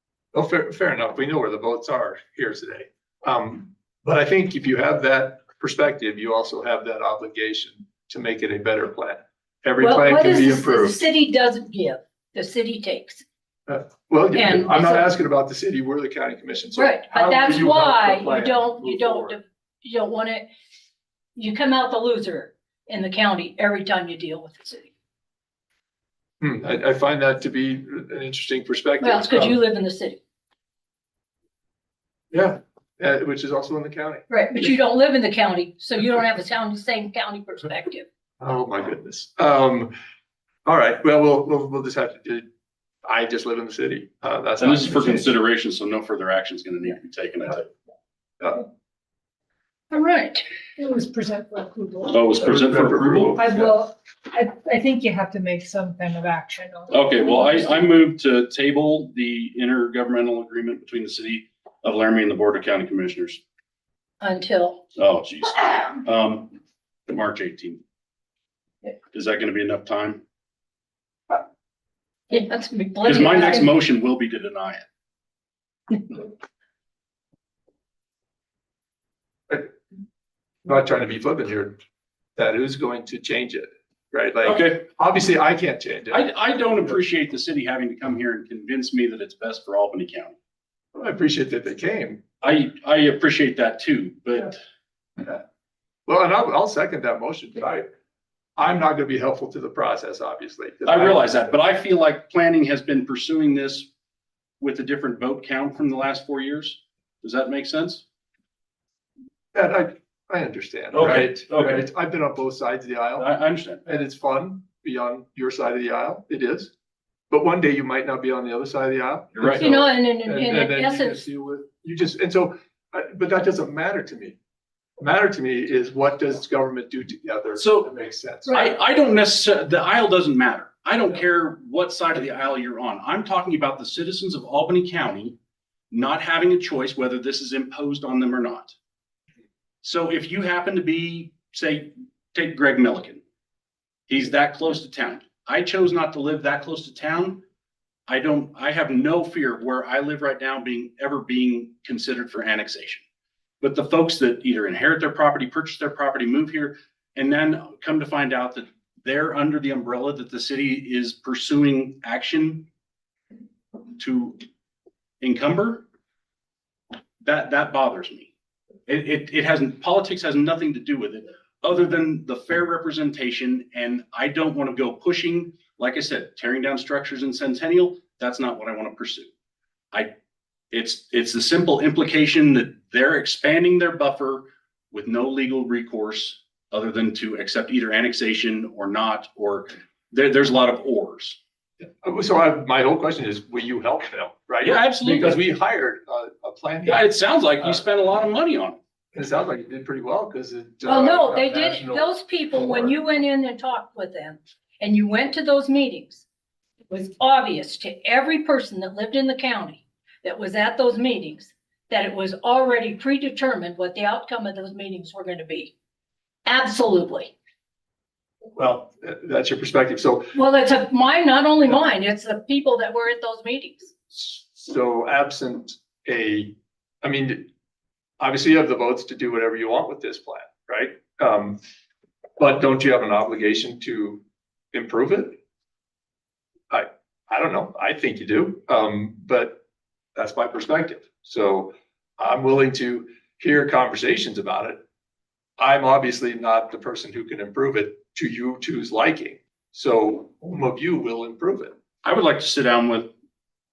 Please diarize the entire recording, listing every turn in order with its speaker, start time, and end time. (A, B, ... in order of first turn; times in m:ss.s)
0:00.3-0:11.0 A
0:09.8-0:13.2 B
0:13.7-0:19.4 A
0:14.3-0:15.1 B
0:16.8-0:20.5 B
0:21.4-0:24.9 B
0:26.4-0:29.6 A
0:29.0-0:30.2 B
0:32.3-0:34.7 A
0:34.3-0:38.0 B
0:38.4-0:39.9 A
0:40.6-0:42.5 A
0:43.0-0:45.3 A
0:44.6-0:47.7 C
0:49.9-0:50.4 B
0:50.8-0:52.3 D
0:52.1-0:53.4 C
0:52.4-0:53.7 A
0:53.4-0:57.9 D
0:56.9-1:03.4 C
1:04.2-1:04.8 B
1:05.0-1:06.6 C
1:07.1-1:07.8 C
1:09.1-1:10.2 C
1:12.3-1:13.7 B
1:13.0-1:14.8 C
1:20.6-1:21.8 A
1:22.4-1:26.2 A
1:24.4-1:24.8 C
1:26.1-1:30.4 C
1:30.9-1:32.2 A
1:32.4-1:34.6 C
1:36.0-1:37.9 A
1:38.6-1:41.5 A
1:40.8-1:43.9 C
1:44.6-1:48.0 C
1:49.5-1:53.3 A
1:50.9-1:51.8 C
1:53.2-1:53.8 C
1:53.8-1:56.7 A
1:57.3-2:04.4 A
1:59.4-1:59.6 C
1:59.6-2:01.2 B
2:05.0-2:08.5 A
2:07.6-2:07.9 C
2:08.4-2:08.7 B
2:08.5-2:15.4 C
2:15.9-2:18.7 C
2:19.8-2:23.2 C
2:24.1-2:27.4 C
2:28.1-2:33.0 C
2:33.6-2:42.7 C
2:44.0-2:44.4 C
2:45.2-2:45.8 C
2:47.2-2:48.3 C
2:48.9-2:59.3 C
3:00.7-3:11.4 C
3:11.8-3:17.1 A
3:14.6-3:15.4 C
3:16.9-3:18.8 C
3:19.1-3:23.0 A
3:20.8-3:26.2 B
3:26.9-3:35.7 B
3:36.4-3:37.3 B
3:38.6-3:40.3 A
3:40.3-3:43.9 B
3:44.1-3:47.5 A
3:48.2-3:51.6 A
3:52.4-3:55.4 A
3:56.7-3:59.6 A
4:00.2-4:04.8 A
4:05.6-4:11.7 A
4:12.0-4:13.1 C